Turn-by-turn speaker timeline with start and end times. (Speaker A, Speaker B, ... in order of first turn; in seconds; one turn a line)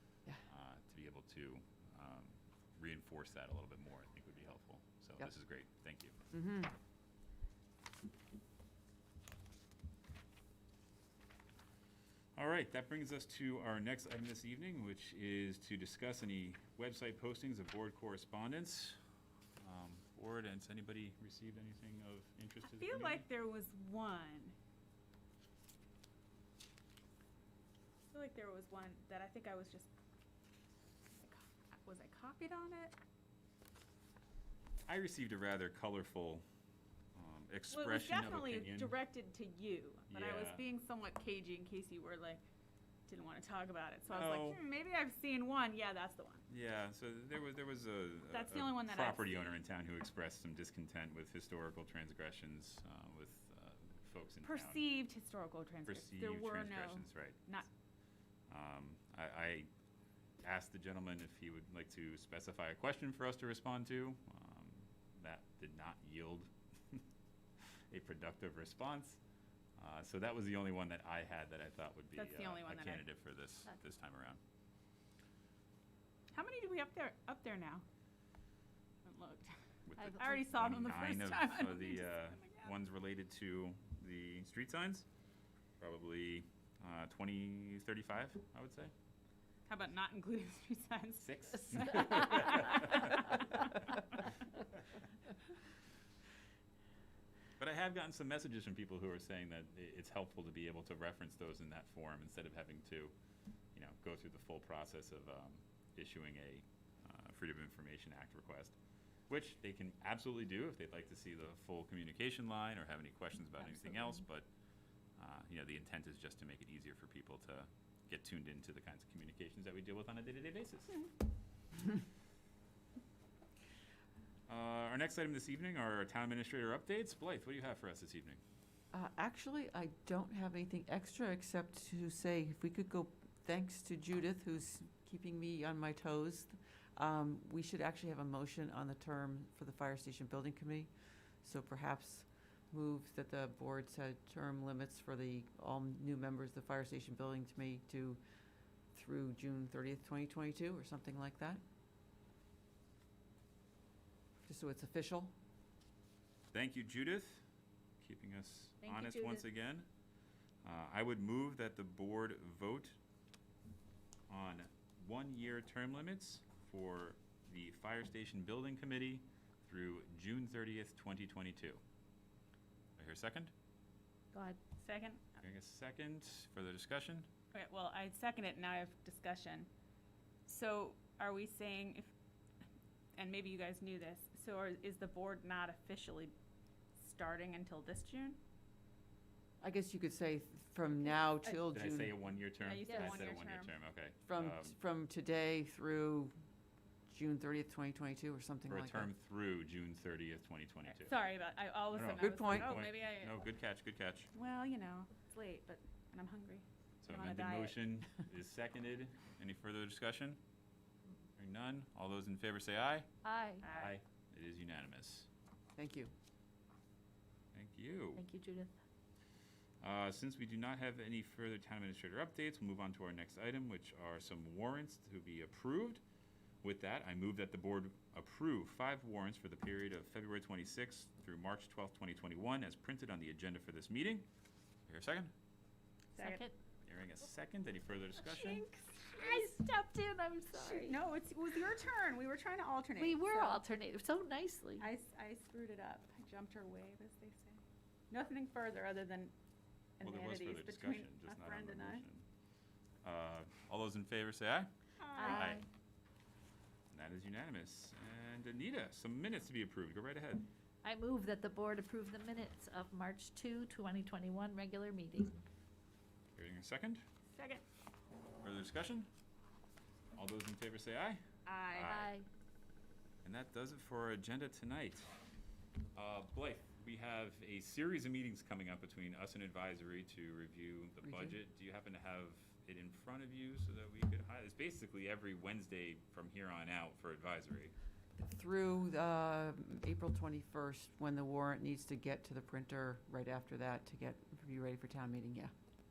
Speaker A: 0.5-6.2
Speaker B: 6.3-6.7
Speaker A: 12.3-19.0
Speaker A: 19.6-23.2
Speaker C: 22.6-24.5
Speaker C: 28.1-29.9
Speaker C: 31.1-33.0
Speaker A: 34.9-36.4
Speaker A: 37.1-38.9
Speaker C: 37.7-42.4
Speaker A: 40.1-40.6
Speaker C: 43.1-46.4
Speaker A: 44.1-44.6
Speaker A: 46.5-54.8
Speaker C: 48.3-49.6
Speaker C: 54.4-57.7
Speaker A: 55.9-57.5
Speaker A: 58.5-59.7
Speaker A: 60.4-67.0
Speaker A: 67.9-69.2
Speaker A: 69.8-74.4
Speaker C: 72.1-73.0
Speaker C: 76.3-77.8
Speaker C: 79.0-79.5
Speaker A: 79.8-85.0
Speaker D: 80.0-80.3
Speaker C: 80.1-82.7
Speaker A: 85.8-88.9
Speaker C: 89.7-93.6
Speaker A: 91.2-93.4
Speaker A: 97.6-103.1
Speaker A: 103.7-108.8
Speaker A: 109.3-114.5
Speaker A: 115.2-121.0
Speaker A: 124.5-128.4
Speaker B: 128.9-140.9
Speaker B: 141.4-148.2
Speaker B: 148.9-151.6
Speaker B: 154.4-155.3
Speaker A: 156.5-157.4
Speaker A: 158.0-159.9
Speaker D: 158.8-159.4
Speaker A: 160.6-163.0
Speaker A: 164.3-171.8
Speaker A: 173.0-173.5
Speaker D: 174.3-174.6
Speaker C: 174.8-175.4
Speaker A: 175.4-177.3
Speaker C: 177.5-179.7
Speaker C: 180.4-182.1
Speaker C: 183.2-186.3
Speaker C: 187.0-188.4
Speaker B: 189.6-192.2
Speaker A: 191.7-194.8
Speaker C: 192.6-193.7
Speaker D: 192.8-193.2
Speaker B: 194.2-196.3
Speaker B: 197.1-199.1
Speaker A: 198.7-201.1
Speaker C: 200.9-203.4
Speaker A: 201.9-204.3
Speaker B: 202.2-202.8
Speaker C: 204.3-207.8
Speaker A: 207.0-210.4
Speaker A: 211.4-213.1
Speaker D: 213.2-213.6
Speaker C: 213.6-214.0
Speaker A: 213.6-215.3
Speaker B: 215.8-216.1
Speaker A: 217.5-218.2
Speaker D: 218.2-218.7
Speaker A: 219.8-226.0
Speaker A: 226.6-234.2
Speaker A: 234.9-235.3
Speaker C: 236.1-236.4
Speaker D: 236.2-236.5
Speaker A: 236.8-238.7
Speaker C: 238.2-239.6
Speaker D: 239.1-241.0
Speaker C: 240.5-243.6
Speaker D: 242.9-244.9
Speaker C: 244.8-249.3
Speaker C: 250.0-252.0
Speaker A: 250.0-252.2
Speaker A: 253.0-255.6
Speaker C: 255.0-255.6
Speaker D: 255.1-255.6
Speaker A: 256.9-260.4
Speaker D: 260.8-265.3
Speaker A: 266.4-267.0
Speaker C: 267.3-267.6
Speaker A: 268.4-269.1
Speaker A: 270.1-272.1
Speaker C: 271.4-272.0
Speaker D: 271.9-272.2
Speaker A: 273.2-275.1
Speaker A: 275.9-287.7
Speaker B: 281.0-281.4
Speaker B: 288.2-295.5